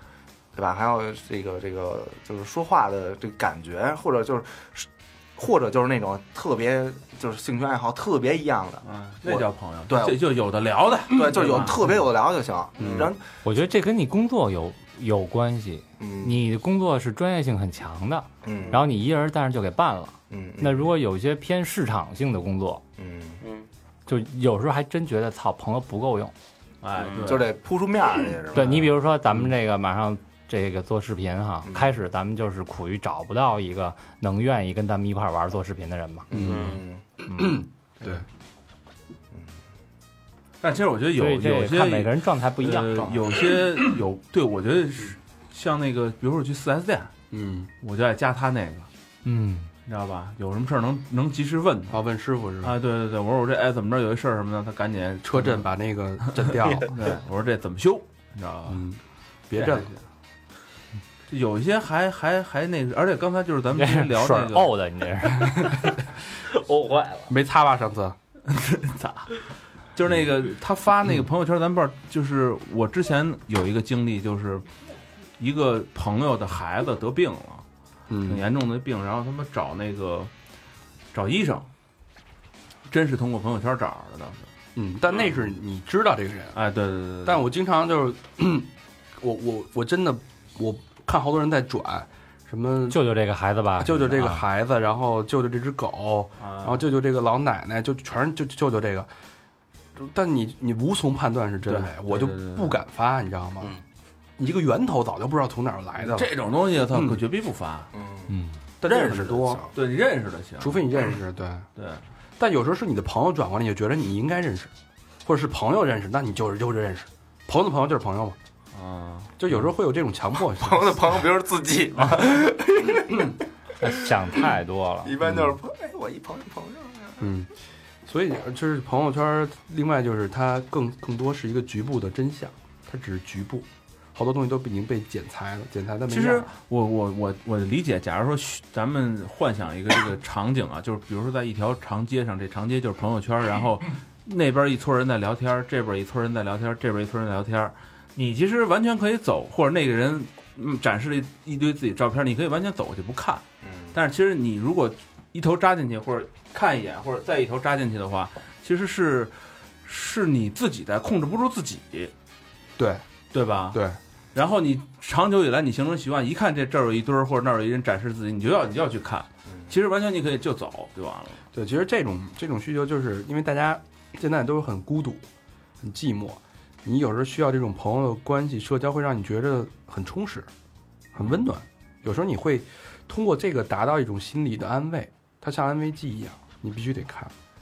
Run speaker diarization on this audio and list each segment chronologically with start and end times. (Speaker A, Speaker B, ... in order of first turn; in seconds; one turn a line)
Speaker A: 0.5-10.2
Speaker B: 8.8-12.0
Speaker A: 11.1-13.2
Speaker C: 12.8-13.1
Speaker D: 13.4-22.8
Speaker A: 16.0-16.4
Speaker A: 18.4-18.8
Speaker A: 20.3-20.9
Speaker A: 23.0-23.4
Speaker E: 23.4-23.7
Speaker D: 24.1-26.3
Speaker B: 26.8-27.5
Speaker A: 27.2-28.9
Speaker D: 28.5-36.3
Speaker A: 31.6-31.9
Speaker A: 36.3-37.0
Speaker C: 36.3-36.8
Speaker E: 36.4-36.8
Speaker D: 37.3-37.6
Speaker C: 37.4-38.2
Speaker B: 40.6-47.1
Speaker D: 41.1-43.0
Speaker C: 47.3-47.7
Speaker B: 47.8-48.9
Speaker D: 49.2-49.7
Speaker B: 49.9-52.0
Speaker C: 51.9-52.8
Speaker B: 52.6-55.6
Speaker C: 55.2-56.9
Speaker B: 56.3-58.8
Speaker E: 56.6-57.0
Speaker C: 58.7-59.9
Speaker B: 59.5-60.0
Speaker B: 61.3-64.7
Speaker D: 63.8-65.8
Speaker C: 65.5-65.8
Speaker E: 66.5-67.3
Speaker C: 67.3-68.2
Speaker B: 68.5-69.4
Speaker B: 69.9-74.7
Speaker B: 75.4-77.6
Speaker C: 78.1-78.4
Speaker B: 78.2-80.3
Speaker B: 81.1-81.7
Speaker B: 82.9-84.5
Speaker C: 84.8-86.6
Speaker B: 86.5-87.4
Speaker C: 87.2-93.0
Speaker D: 92.9-94.4
Speaker C: 93.8-99.1
Speaker B: 96.4-96.8
Speaker C: 100.0-103.7
Speaker B: 101.7-102.8
Speaker C: 104.4-106.3
Speaker B: 106.0-107.9
Speaker C: 106.9-107.2
Speaker A: 107.9-108.4
Speaker C: 108.8-109.6
Speaker B: 108.8-110.8
Speaker A: 109.4-109.7
Speaker C: 110.6-111.7
Speaker B: 111.8-112.0
Speaker C: 112.4-114.7
Speaker C: 115.2-118.4
Speaker B: 118.7-119.5
Speaker C: 119.4-121.2
Speaker A: 120.5-123.4
Speaker C: 123.1-123.3
Speaker D: 123.8-125.1
Speaker A: 125.0-127.3
Speaker C: 125.2-125.5
Speaker C: 127.2-127.5
Speaker C: 128.1-136.5
Speaker B: 136.1-162.1
Speaker A: 153.6-153.9
Speaker C: 162.8-163.0
Speaker B: 163.3-163.8
Speaker C: 163.7-164.0
Speaker B: 164.3-171.4
Speaker C: 171.5-175.3
Speaker C: 175.8-180.5
Speaker C: 181.1-187.3